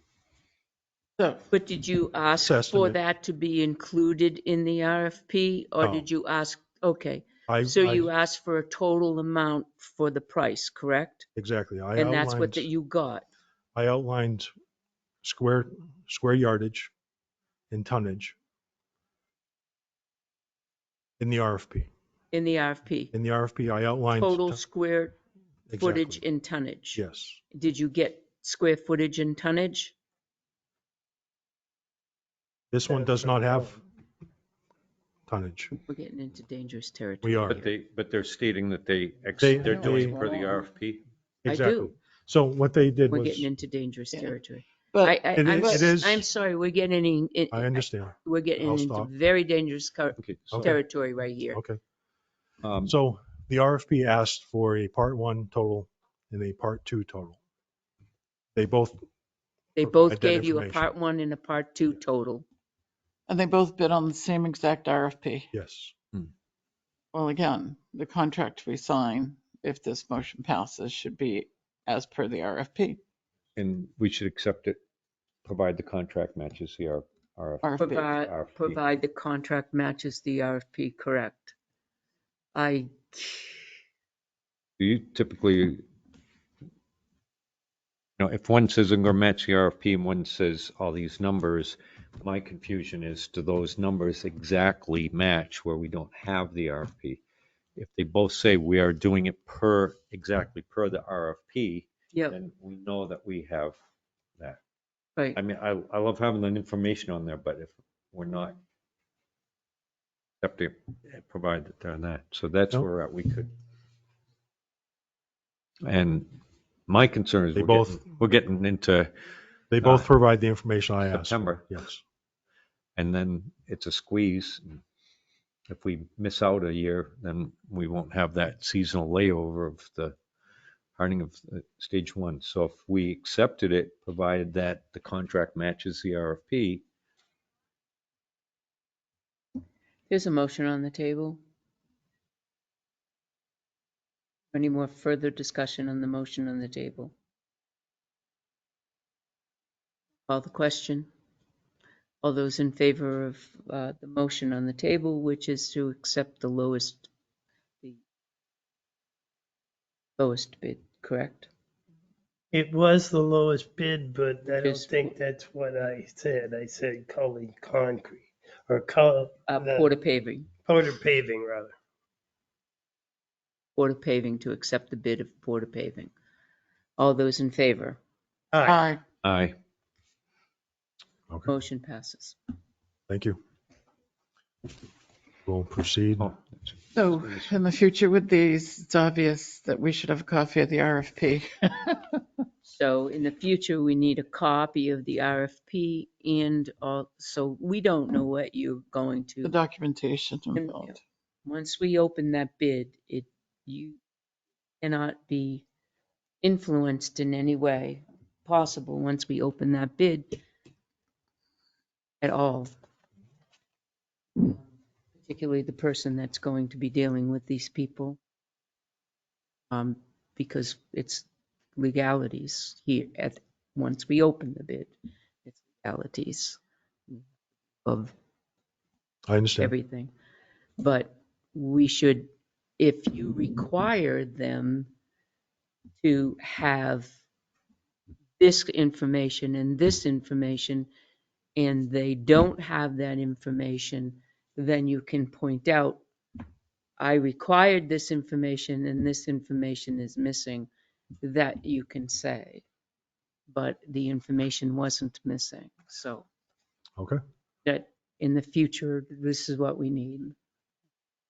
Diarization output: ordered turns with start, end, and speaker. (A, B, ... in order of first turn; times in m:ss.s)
0:01.5-0:11.3 A
0:02.4-0:03.0 B
0:05.8-0:06.0 B
0:07.5-0:08.1 B
0:11.4-0:12.7 B
0:12.0-0:13.2 A
0:13.8-0:14.5 B
0:15.2-0:16.9 B
0:17.7-0:18.4 B
0:21.2-0:21.9 B
0:22.3-0:23.1 A
0:23.1-0:24.6 B
0:24.2-0:25.2 A
0:25.7-0:26.2 B
0:25.8-0:27.0 A
0:27.0-0:27.4 B
0:27.5-0:30.0 A
0:32.7-0:33.8 B
0:32.9-0:33.8 C
0:35.3-0:35.8 B
0:35.9-0:37.7 A
0:37.2-0:37.6 B
0:37.5-0:41.0 D
0:39.4-0:40.2 B
0:39.6-0:40.4 A
0:41.4-0:43.5 B
0:41.5-0:41.9 A
0:43.1-0:51.6 A
0:44.9-0:45.8 E
0:45.4-0:46.2 B
0:47.5-0:49.1 B
0:50.2-0:50.7 D
0:50.5-0:50.8 B
0:51.5-0:51.8 B
0:52.6-0:52.9 D
0:52.9-0:57.4 B
0:58.6-0:59.0 B
0:59.8-1:02.5 A
0:59.8-1:00.9 B
1:03.3-1:05.5 E
1:05.5-1:06.0 B
1:07.1-1:13.0 E
1:13.6-1:14.8 D
1:15.4-1:18.8 D
1:17.6-1:18.1 E
1:17.8-1:21.5 A
1:22.6-1:23.7 A
1:24.8-1:25.8 D
1:28.2-1:37.2 D
1:37.8-1:43.8 D
1:45.4-1:48.6 D
1:50.4-1:53.5 D
1:55.8-1:56.3 D
1:56.9-1:59.1 D
1:57.6-1:58.0 B
1:59.7-2:02.0 B
1:59.8-2:00.1 D
2:01.1-2:01.6 D
2:03.0-2:04.8 D
2:05.7-2:10.2 D
2:11.0-2:16.8 D
2:20.1-2:21.4 A
2:24.5-2:27.1 A
2:30.3-2:31.1 A
2:32.2-2:37.1 A
2:40.2-2:41.5 A
2:42.5-2:49.9 C
2:44.5-2:45.2 A
2:49.5-2:50.5 A
2:50.7-2:51.7 C
2:53.8-2:56.1 A
2:57.0-2:58.0 A
2:58.5-2:58.9 C
2:58.6-2:59.0 E
2:59.2-2:59.6 D
3:01.4-3:02.4 A
3:03.1-3:03.4 B
3:05.5-3:06.3 B
3:06.2-3:07.5 D
3:07.0-3:12.2 E
3:12.7-3:19.5 A
3:19.4-3:20.9 E
3:20.6-3:20.9 A
3:21.4-3:24.0 A
3:24.8-3:25.6 A
3:26.4-3:30.4 A
3:32.2-3:32.7 A
3:35.2-3:38.2 A
3:39.7-3:44.9 A
3:45.5-3:46.6 A
3:47.8-3:48.1 A
3:49.3-3:49.7 B
3:49.6-3:50.1 A
3:50.8-3:52.3 A
3:52.8-3:54.9 A
3:56.0-3:57.1 A
3:58.4-4:00.9 A
4:01.6-4:06.0 A
4:07.0-4:10.7 A
4:11.2-4:12.6 A
4:13.5-4:16.3 A
4:17.6-4:20.4 A